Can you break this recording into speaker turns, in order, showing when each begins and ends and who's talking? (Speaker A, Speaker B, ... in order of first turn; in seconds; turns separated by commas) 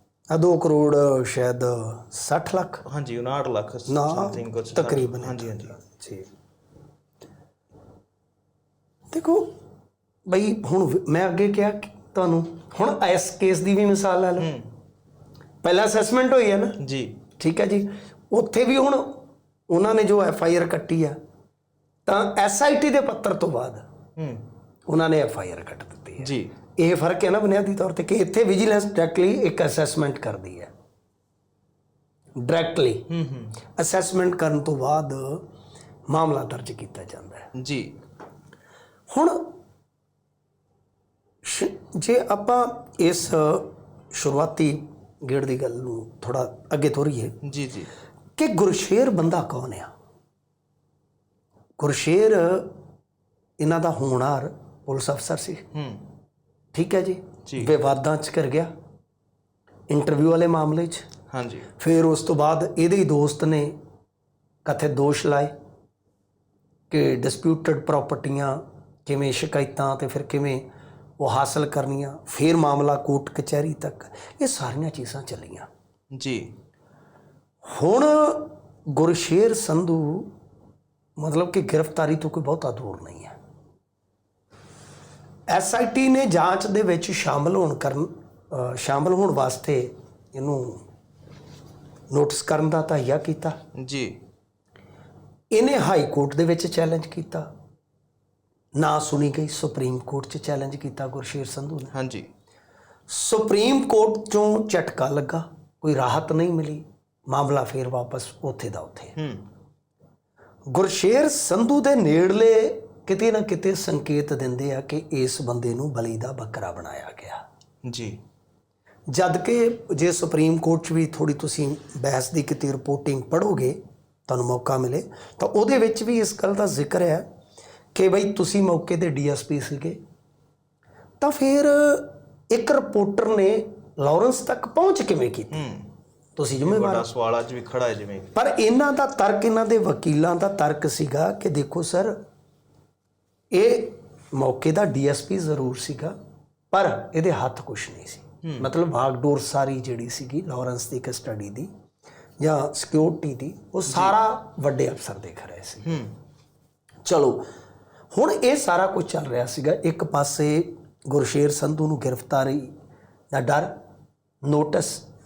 Speaker A: 0.3-2.8, Speaker B: 2.8-5.8, Speaker A: 3.9-6.3, Speaker A: 9.1-9.5, Speaker A: 10.3-14.5, Speaker B: 14.4-14.7, Speaker A: 15.6-16.8, Speaker B: 16.8-17.2, Speaker A: 17.4-21.2, Speaker A: 22.1-23.9, Speaker B: 24.2-24.4, Speaker A: 24.9-30.7, Speaker B: 26.2-26.5, Speaker A: 32.4-33.1, Speaker B: 33.1-33.5, Speaker A: 33.8-35.5, Speaker A: 36.1-37.5, Speaker B: 37.5-37.9, Speaker A: 39.1-39.5, Speaker A: 41.4-47.4, Speaker B: 47.4-47.9, Speaker A: 48.4-49.9, Speaker A: 51.8-52.7, Speaker A: 53.6-55.6, Speaker B: 55.7-56.1, Speaker A: 56.7-58.7, Speaker B: 57.5-57.7, Speaker A: 59.9-61.0, Speaker B: 61.3-61.7, Speaker A: 61.8-63.8, Speaker A: 64.7-65.5, Speaker A: 66.9-70.7, Speaker A: 71.2-75.7, Speaker B: 76.1-76.5, Speaker A: 77.7-80.3, Speaker A: 81.2-83.4, Speaker A: 85.5-90.8, Speaker A: 92.1-93.6, Speaker B: 93.8-94.2, Speaker A: 95.5-97.5, Speaker A: 98.8-101.9, Speaker B: 101.9-102.3, Speaker A: 103.1-109.2, Speaker B: 109.2-109.4, Speaker A: 110.7-117.4, Speaker B: 117.8-118.2, Speaker A: 119.1-127.2, Speaker A: 127.9-130.0, Speaker A: 131.2-135.7, Speaker B: 135.5-135.9, Speaker A: 136.4-137.1, Speaker B: 136.6-138.4, Speaker A: 138.3-142.2, Speaker A: 143.5-146.2, Speaker A: 146.7-151.7, Speaker B: 148.4-148.7, Speaker A: 152.4-156.1, Speaker B: 153.9-154.2, Speaker B: 155.8-156.1, Speaker A: 157.1-157.4, Speaker A: 158.1-162.7, Speaker A: 163.3-163.8, Speaker A: 164.4-165.0